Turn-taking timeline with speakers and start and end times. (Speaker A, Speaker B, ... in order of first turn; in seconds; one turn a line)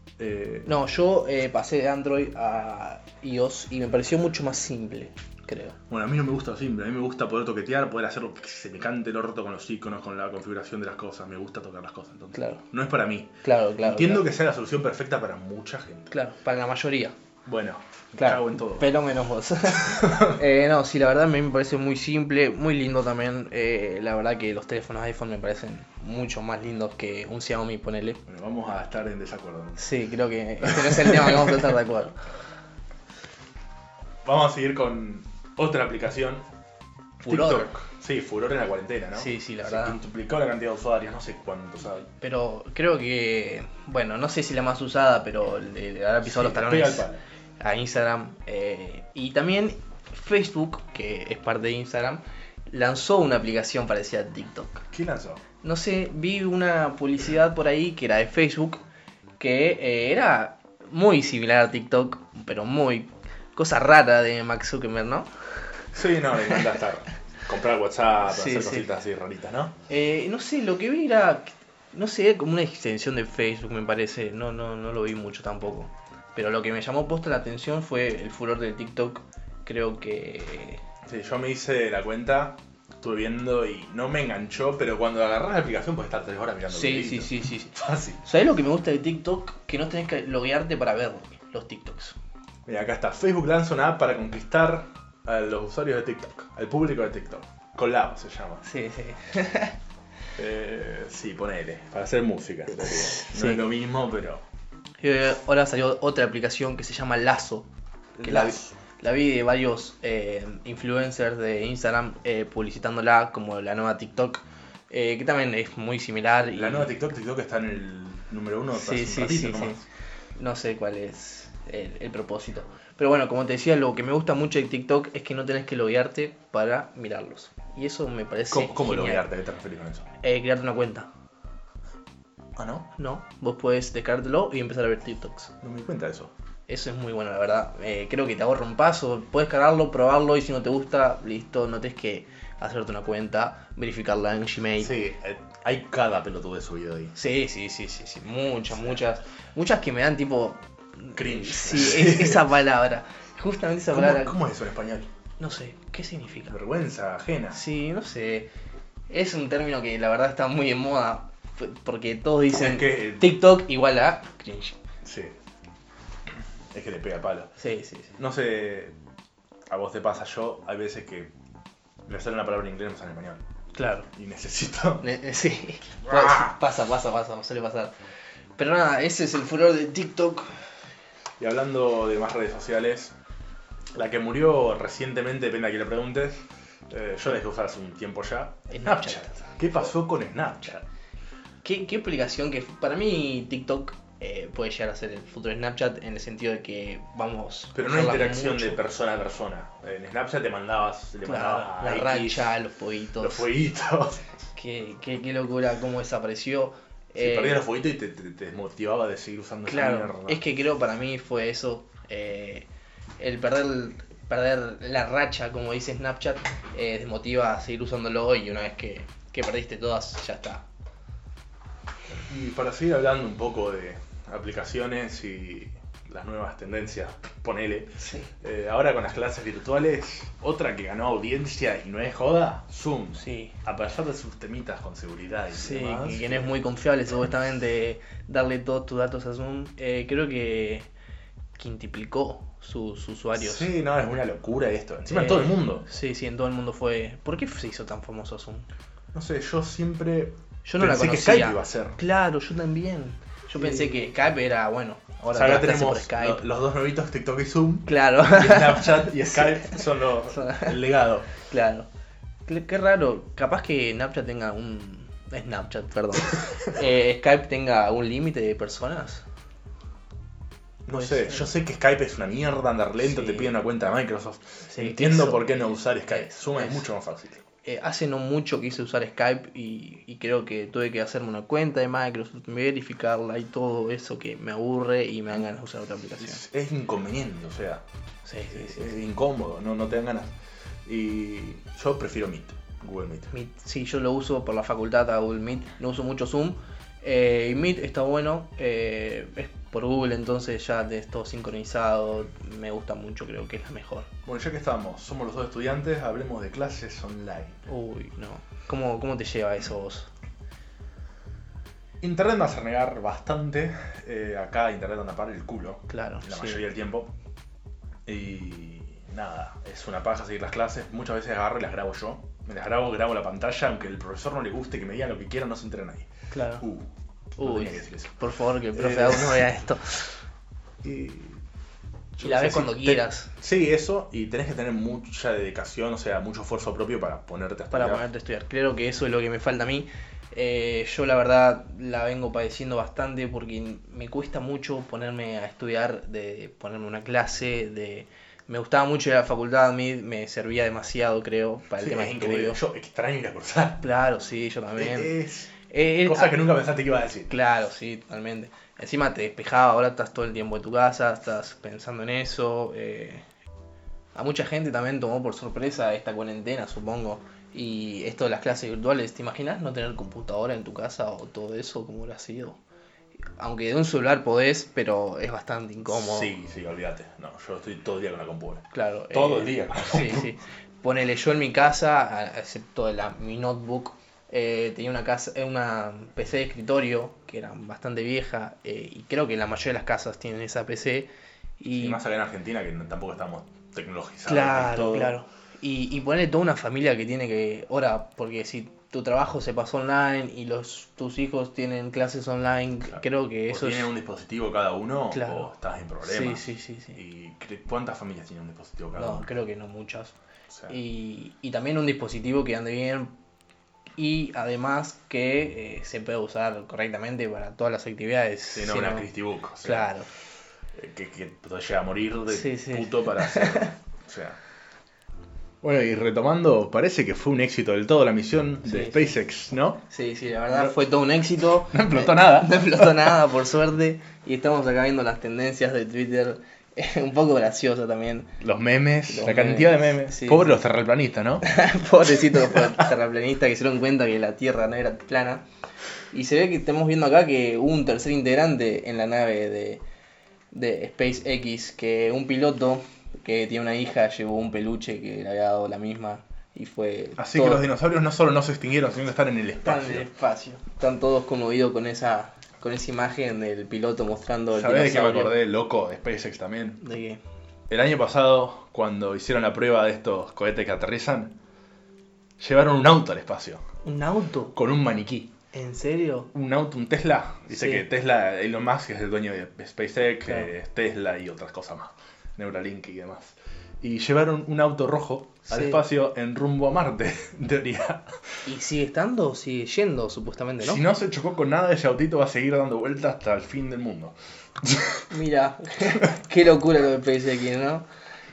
Speaker A: 0.2-0.7
Speaker B: 0.7-5.8
Speaker A: 5.9-16.1
Speaker B: 12.3-12.6
Speaker B: 13.4-14.2
Speaker B: 16.1-17.1
Speaker A: 17.4-18.9
Speaker B: 18.2-28.2
Speaker A: 19.7-20.4
Speaker A: 28.2-29.9
Speaker B: 29.8-32.2
Speaker A: 30.6-31.8
Speaker A: 34.2-36.5
Speaker A: 37.2-42.1
Speaker B: 37.2-37.7
Speaker B: 39.1-40.0
Speaker B: 42.2-47.1
Speaker A: 46.2-47.2
Speaker B: 47.6-54.9
Speaker A: 54.9-55.4
Speaker B: 55.6-58.8
Speaker B: 59.4-65.7
Speaker A: 65.9-69.8
Speaker B: 68.3-68.9
Speaker B: 69.9-80.8
Speaker A: 81.0-88.2
Speaker B: 86.7-92.2
Speaker A: 92.7-98.6
Speaker B: 98.6-99.8
Speaker A: 100.3-104.4
Speaker B: 102.8-103.6
Speaker B: 105.0-107.7
Speaker A: 108.2-108.8
Speaker B: 108.2-116.9
Speaker A: 116.5-119.8
Speaker B: 118.7-119.8
Speaker B: 120.3-129.3
Speaker A: 128.5-130.1
Speaker B: 130.2-131.1
Speaker A: 132.6-132.9
Speaker B: 133.0-135.5
Speaker A: 135.6-136.3
Speaker B: 136.7-144.9
Speaker A: 144.8-147.1
Speaker B: 147.1-154.4
Speaker A: 151.1-152.5
Speaker A: 153.9-155.1
Speaker B: 155.4-156.6
Speaker A: 156.5-157.6
Speaker B: 157.5-158.5
Speaker B: 159.1-164.8
Speaker A: 162.6-163.4
Speaker A: 165.0-165.3
Speaker A: 166.7-167.5
Speaker B: 167.6-168.2
Speaker A: 168.2-168.9
Speaker A: 169.7-171.3
Speaker A: 172.1-173.4
Speaker B: 173.7-174.1
Speaker A: 174.1-175.0
Speaker B: 175.0-177.9
Speaker A: 176.1-176.6
Speaker B: 178.6-180.5
Speaker A: 181.4-183.1
Speaker A: 183.9-190.8
Speaker B: 188.7-189.5
Speaker B: 191.6-198.8
Speaker A: 197.7-202.5
Speaker B: 201.2-203.5
Speaker A: 203.2-204.2
Speaker B: 204.6-207.6
Speaker A: 207.2-210.4
Speaker B: 209.7-212.7
Speaker B: 213.2-220.6
Speaker A: 222.1-236.5
Speaker B: 228.0-228.3
Speaker B: 233.1-233.5
Speaker B: 235.5-240.9
Speaker B: 241.5-243.7
Speaker A: 243.3-245.8
Speaker B: 245.1-248.7
Speaker A: 249.1-252.0
Speaker B: 250.6-256.4
Speaker A: 253.6-254.0
Speaker A: 255.3-261.3
Speaker B: 257.9-260.8
Speaker B: 261.4-261.9
Speaker B: 262.4-269.2
Speaker A: 270.9-277.4
Speaker B: 270.9-271.5
Speaker B: 273.0-273.6
Speaker B: 274.6-276.9
Speaker B: 277.6-286.4
Speaker A: 286.2-287.8
Speaker B: 288.2-288.9
Speaker A: 288.5-290.3
Speaker A: 290.8-293.3
Speaker B: 293.3-304.1
Speaker A: 304.2-307.6
Speaker B: 307.7-310.1
Speaker A: 312.0-317.1
Speaker B: 315.9-316.6
Speaker A: 318.1-328.1
Speaker B: 326.3-326.6
Speaker B: 327.4-330.1
Speaker A: 328.7-329.5
Speaker A: 330.8-331.4
Speaker A: 332.1-338.0
Speaker B: 332.2-333.3
Speaker B: 337.7-352.6
Speaker A: 351.8-353.9
Speaker B: 353.8-355.1
Speaker A: 354.8-355.5
Speaker B: 355.6-356.4
Speaker A: 356.0-357.4
Speaker B: 357.3-363.2
Speaker B: 364.1-372.6
Speaker B: 373.4-376.3
Speaker A: 375.9-380.3
Speaker B: 378.7-392.0
Speaker A: 391.7-395.2
Speaker B: 394.2-403.9
Speaker A: 402.9-409.3
Speaker B: 405.1-405.5
Speaker B: 406.0-407.0
Speaker B: 408.9-410.1
Speaker A: 410.5-410.8
Speaker B: 410.7-413.1
Speaker B: 414.0-419.1
Speaker A: 418.5-419.9
Speaker B: 419.6-420.1
Speaker A: 420.7-424.4
Speaker B: 422.3-423.7
Speaker A: 425.6-429.8
Speaker B: 428.6-429.1
Speaker B: 429.9-438.4
Speaker A: 431.7-433.1
Speaker A: 438.4-441.4
Speaker B: 439.1-440.6
Speaker B: 441.4-445.4
Speaker B: 446.1-449.8
Speaker B: 450.5-457.6
Speaker A: 457.2-460.1
Speaker B: 459.6-465.3
Speaker A: 464.5-466.8
Speaker B: 466.8-467.2
Speaker A: 467.7-471.3
Speaker A: 472.4-473.6
Speaker B: 473.8-474.6
Speaker A: 474.5-475.3
Speaker B: 475.5-476.3
Speaker A: 476.3-488.2
Speaker B: 477.5-477.8
Speaker B: 485.5-485.8
Speaker B: 488.4-490.8
Speaker A: 490.6-495.1
Speaker B: 495.1-497.8